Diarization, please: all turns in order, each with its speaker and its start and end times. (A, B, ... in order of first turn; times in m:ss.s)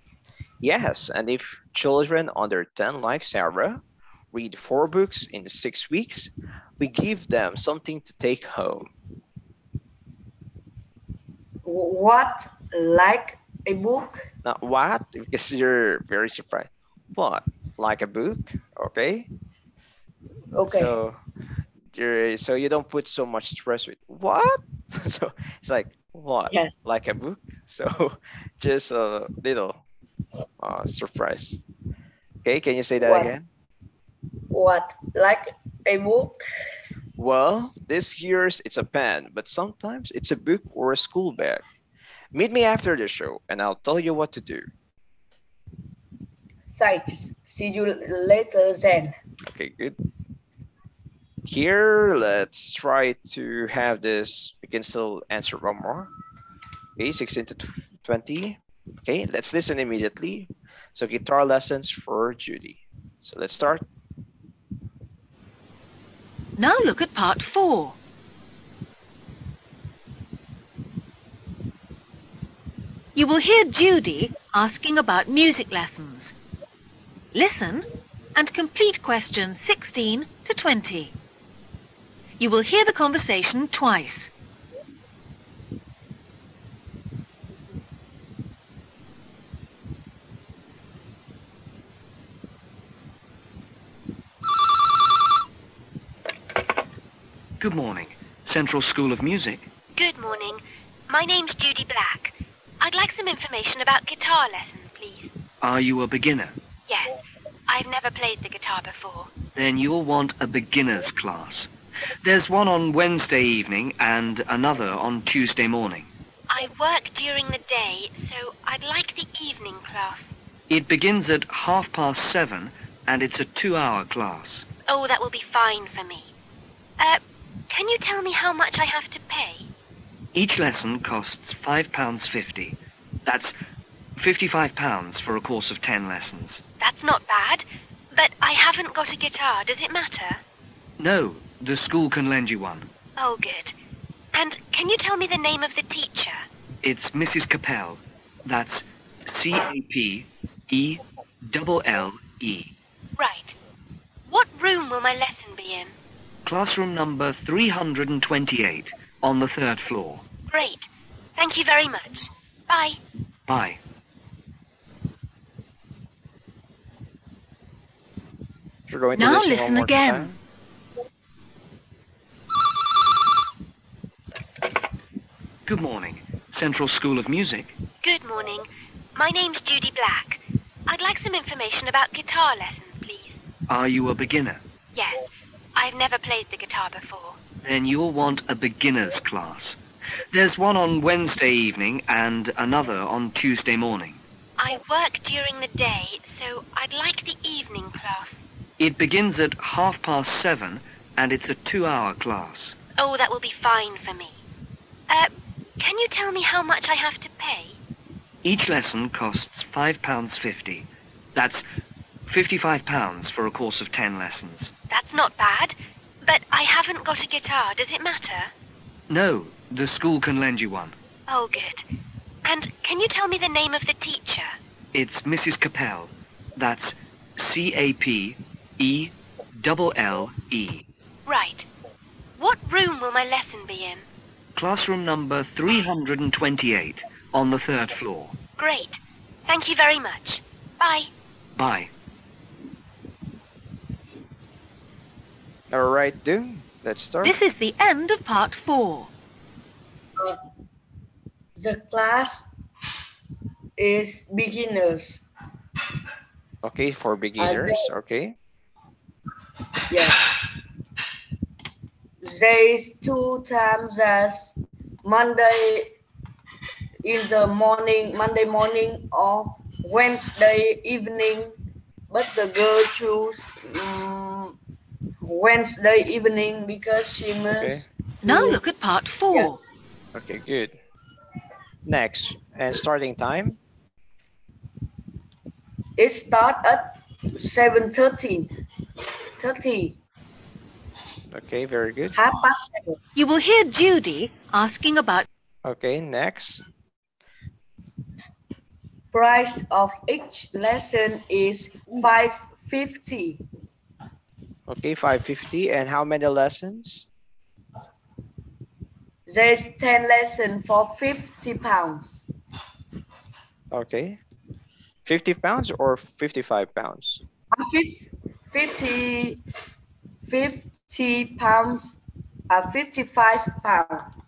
0:00.6-0:08.9 A
0:11.6-0:14.3 B
0:14.4-0:19.3 A
0:20.5-0:20.9 B
0:20.7-0:21.2 A
0:21.9-0:29.8 A
0:30.6-0:31.6 A
0:32.4-0:33.5 A
0:33.0-0:33.3 B
0:34.5-0:36.4 B
0:37.2-0:41.6 A
0:42.3-0:44.7 A
0:46.7-0:49.1 B
0:49.4-0:50.0 A
0:51.4-0:56.1 A
0:57.0-1:03.8 A
1:06.6-1:08.0 C
1:13.1-1:16.3 C
1:17.3-1:21.1 C
1:22.4-1:24.3 C
1:37.6-1:39.7 D
1:40.0-1:45.3 E
1:45.6-1:46.6 D
1:46.9-1:49.3 E
1:49.6-1:51.7 D
1:52.2-1:56.1 D
1:56.5-2:00.3 E
2:00.7-2:04.7 D
2:04.9-2:06.3 E
2:07.0-2:09.7 E
2:10.3-2:13.6 D
2:14.2-2:16.6 D
2:16.8-2:20.4 E
2:21.0-2:22.9 D
2:23.2-2:23.7 E
2:24.3-2:26.4 E
2:26.8-2:32.7 D
2:33.2-2:33.6 E
2:34.3-2:35.9 E
2:36.4-2:40.3 D
2:40.5-2:43.0 E
2:43.5-2:43.8 D
2:48.9-2:50.4 A
2:49.1-2:50.3 C
2:55.6-2:57.8 D
2:58.0-3:03.4 E
3:03.7-3:04.6 D
3:04.9-3:07.4 E
3:07.6-3:09.8 D
3:10.3-3:14.2 D
3:14.6-3:18.4 E
3:18.8-3:22.8 D
3:23.0-3:24.4 E
3:25.1-3:27.8 E
3:28.4-3:31.6 D
3:32.3-3:34.7 D
3:34.9-3:38.5 E
3:39.1-3:41.0 D
3:41.3-3:41.9 E
3:42.4-3:44.6 E
3:44.9-3:50.8 D
3:51.3-3:51.7 E
3:52.4-3:54.0 E
3:54.6-3:58.4 D
3:58.6-4:01.1 E
4:01.6-4:01.9 D
4:05.7-4:07.4 A
4:07.2-4:09.1 C
4:11.6-4:12.5 B
4:13.8-4:15.2 B
4:16.6-4:18.4 A
4:17.4-4:17.9 B
4:19.9-4:20.5 B
4:22.2-4:25.9 B
4:27.0-4:31.6 B
4:32.1-4:34.6 B
4:35.2-4:38.6 B
4:37.6-4:37.8 A
4:38.2-4:39.6 C
4:39.3-4:39.6 B
4:40.1-4:40.8 A
4:41.9-4:43.6 A
4:46.0-4:48.5 B
4:49.4-4:50.0 B
4:51.3-4:52.3 A
4:52.1-4:53.0 B
4:53.2-4:55.3 C
4:55.6-4:56.6 A
4:59.1-5:03.4 B
5:04.7-5:07.1 A
5:09.3-5:12.2 B
5:13.7-5:14.2 A
5:15.0-5:17.2 A
5:17.5-5:19.4 B
5:20.2-5:22.0 B
5:22.5-5:24.1 B